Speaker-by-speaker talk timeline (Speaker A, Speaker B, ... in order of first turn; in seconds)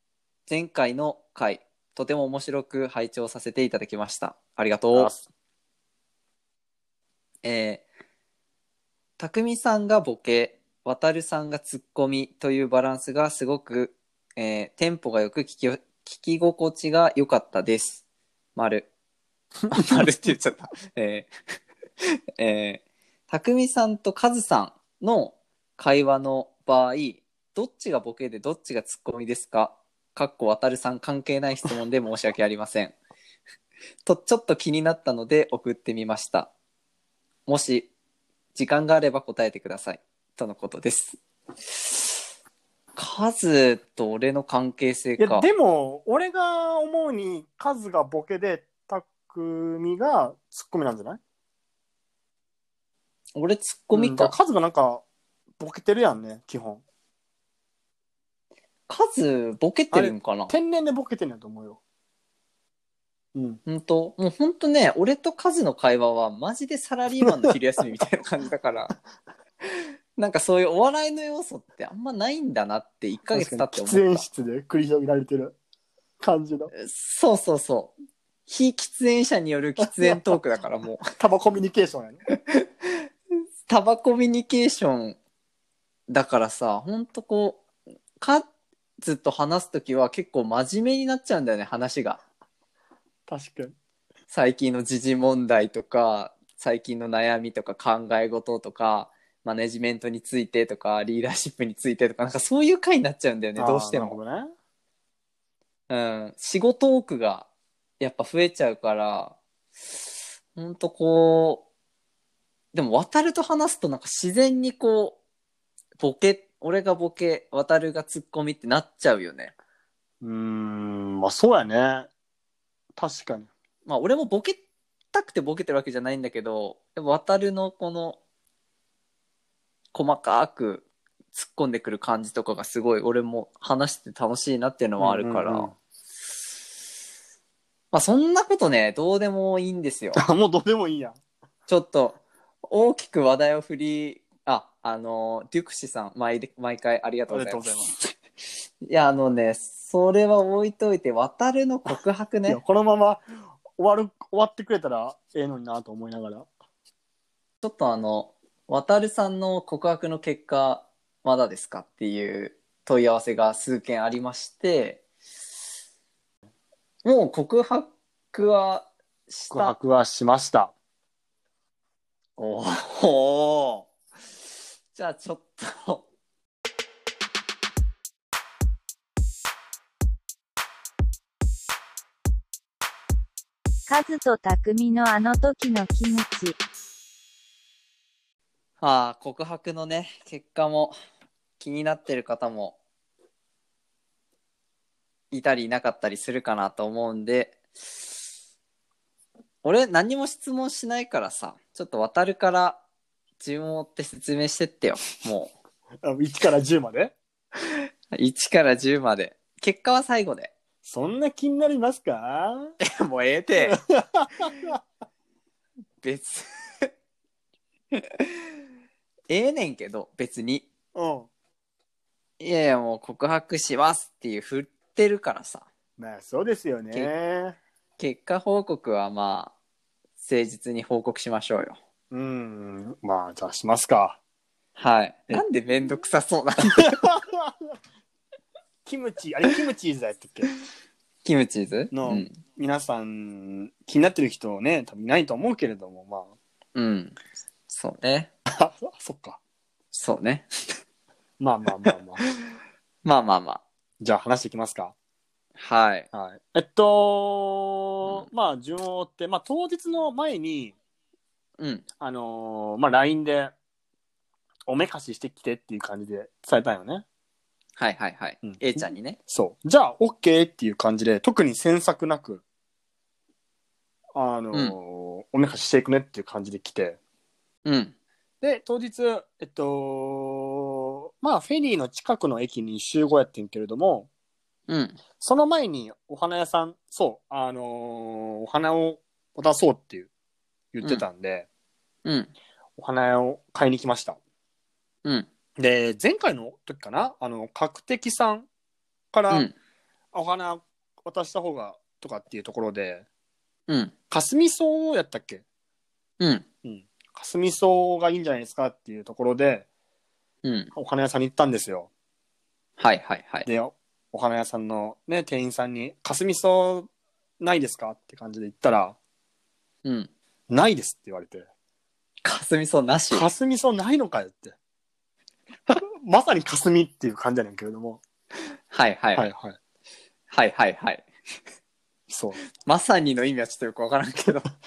Speaker A: 0.5-5.1, 7.4-7.8, 9.2-18.0, 18.6-18.9, 19.7-21.3, 22.0-32.9, 34.0-36.5, 37.5-37.9, 38.5-41.2, 41.7-42.2, 43.0-45.5, 53.3-54.3, 58.9-60.5, 63.6-68.9, 69.6-74.2, 76.7-77.9, 78.5-81.1, 82.3-82.9, 83.7-85.2, 86.1-87.6, 88.2-88.4, 89.0-92.2, 94.3-104.2, 105.9-107.5, 108.0-109.4, 110.5-111.6, 112.7-115.2, 116.0-119.5, 123.9-124.6, 125.1-128.2, 129.9-135.7, 137.9-140.2, 141.7-147.7, 148.8-152.6, 157.6-165.0, 167.0-169.8, 172.4-173.9, 174.9-176.1, 188.8-190.9, 191.6-192.8, 195.3-197.6, 199.6-202.8, 203.4-205.5, 208.1-210.5, 212.8-213.8, 216.0-216.9, 217.9-218.4, 219.3-220.7, 222.4-225.7, 228.0-229.5, 230.2-231.8, 234.8-237.1, 241.2-242.4, 246.8-247.2, 247.7-248.3, 249.9-250.5, 253.0-253.6, 255.6-256.1, 261.6-261.9, 267.8-269.2, 277.6-277.9, 284.7-285.0, 292.0-292.3, 303.7-303.9, 306.2-306.4, 310.4-310.7, 312.8-313.5, 319.9-320.1, 322.2-323.2, 328.7-329.3, 330.3-331.1, 332.6-334.5
Speaker B: 4.9-5.2, 19.7-20.1, 45.2-51.2, 53.9-55.0, 55.6-56.8, 59.9-61.8, 63.3-63.6, 73.3-75.5, 76.2-76.7, 79.8-80.4, 81.2-82.2, 93.3-93.7, 103.6-104.5, 120.2-122.1, 123.0-123.5, 135.0-135.7, 140.2-141.2, 147.3-147.9, 151.9-153.2, 153.8-156.5, 169.5-170.7, 206.0-207.1, 210.8-212.7, 213.6-214.8, 220.9-221.3, 226.0-227.6, 232.1-234.2, 236.8-237.5, 238.9-240.5, 241.9-246.3, 248.5-249.4, 251.4-252.2, 254.0-254.9, 256.1-260.8, 262.0-263.5, 264.7-267.0, 268.4-272.4, 274.1-277.0, 278.4-284.1, 285.2-290.1, 290.7-291.4, 292.8-294.2, 295.6-298.5, 299.1-299.5, 300.1-303.0, 304.1-305.4, 306.6-309.6, 310.8-311.9, 313.4-316.9, 317.4-318.9, 320.5-321.5, 323.1-324.5, 325.8-328.0, 329.1-329.6, 332.1-332.4
Speaker C: 183.9-186.6